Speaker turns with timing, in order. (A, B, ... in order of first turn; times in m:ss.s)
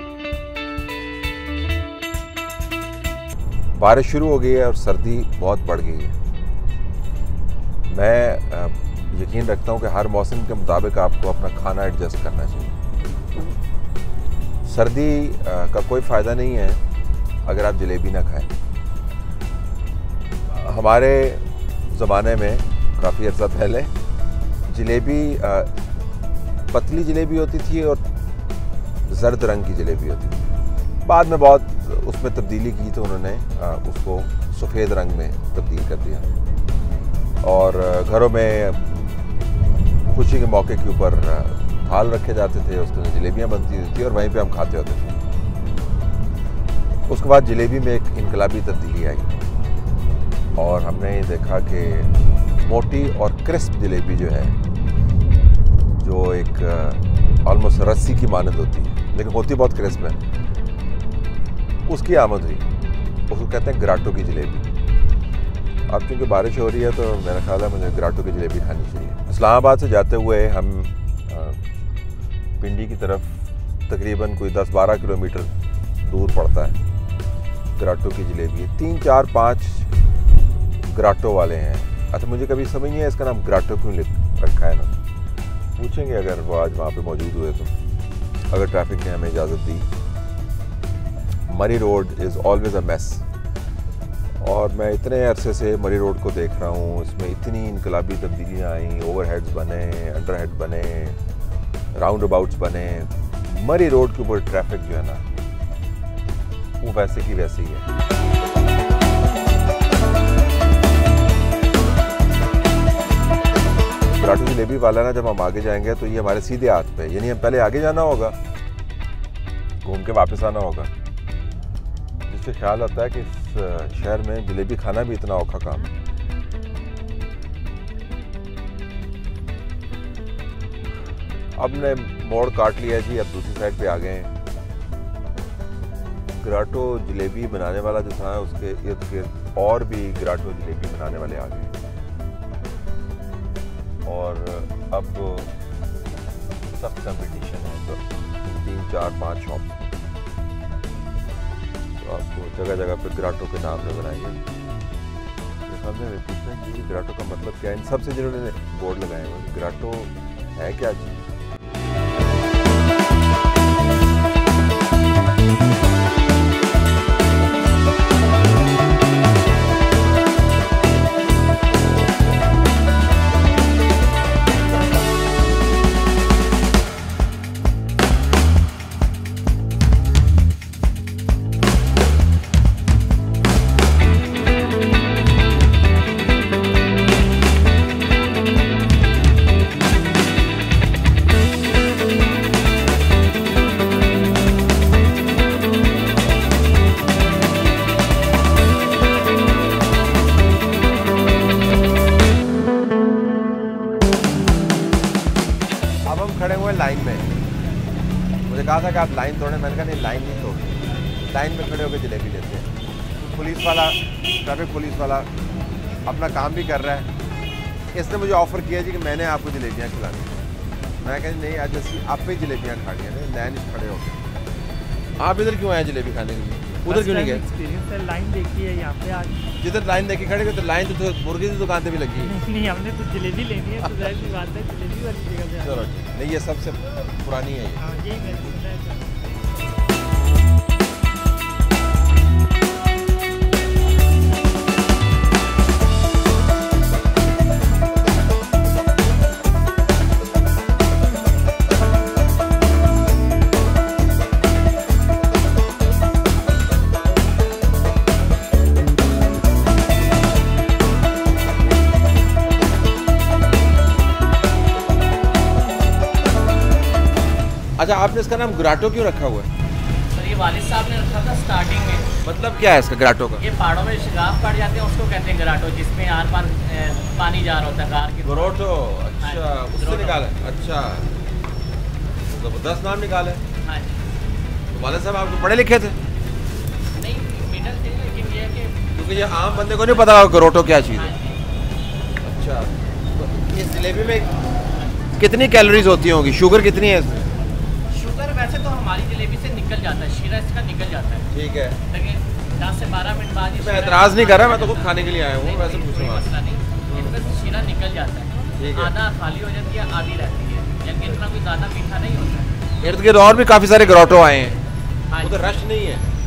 0:03.7-0:06.2 A
0:07.9-0:12.8 A
0:14.6-0:16.8 A
0:17.4-0:18.5 A
0:20.5-0:23.9 A
0:24.7-0:25.7 A
0:26.7-0:28.0 A
0:29.0-0:30.4 A
0:31.0-0:36.3 A
0:37.4-0:39.1 A
0:40.0-0:45.2 A
0:47.1-0:49.3 A
0:50.6-0:54.5 A
0:56.0-1:00.2 A
1:01.8-1:02.6 A
1:03.3-1:04.7 A
1:05.9-1:11.6 A
1:12.6-1:16.8 A
1:17.8-1:19.9 A
1:20.8-1:25.0 A
1:25.8-1:27.8 A
1:28.5-1:29.9 A
1:31.5-1:33.2 A
1:34.4-1:41.2 A
1:41.9-1:45.3 A
1:46.8-1:47.9 A
1:54.1-1:58.3 A
1:59.8-2:00.9 A
2:02.3-2:05.9 A
2:11.5-2:14.3 A
2:16.4-2:21.7 A
2:24.0-2:25.5 A
2:26.7-2:29.7 A
2:32.0-2:34.4 A
2:35.7-2:41.2 A
3:26.0-3:27.3 A
3:28.5-3:32.7 A
3:33.3-3:35.3 A
3:36.0-3:37.1 A
3:37.9-3:40.3 A
3:41.0-3:44.2 A
3:45.2-3:47.4 A
3:46.8-3:49.4 B
3:49.6-3:52.3 A
3:52.2-3:55.8 B
3:55.6-3:57.8 A
3:57.8-3:59.3 B
4:27.8-4:29.5 A
4:30.1-4:32.2 C
4:32.2-4:33.4 A
4:33.4-4:38.7 C
4:38.2-4:41.1 A
4:39.2-4:40.2 C
4:42.2-4:43.4 A
4:43.6-4:44.1 C
4:44.7-4:46.0 A
4:46.9-4:50.1 C
4:48.9-4:51.1 A
4:50.9-4:51.4 C
4:52.2-4:54.3 A
4:54.7-4:55.0 C
4:55.2-4:57.3 A
4:57.9-5:01.3 C
5:01.3-5:01.8 A
5:01.9-5:12.7 C
5:03.6-5:06.3 A
5:06.9-5:07.1 A
5:08.6-5:08.9 A
5:12.8-5:14.6 A
5:15.1-5:15.6 C
5:15.2-5:16.0 A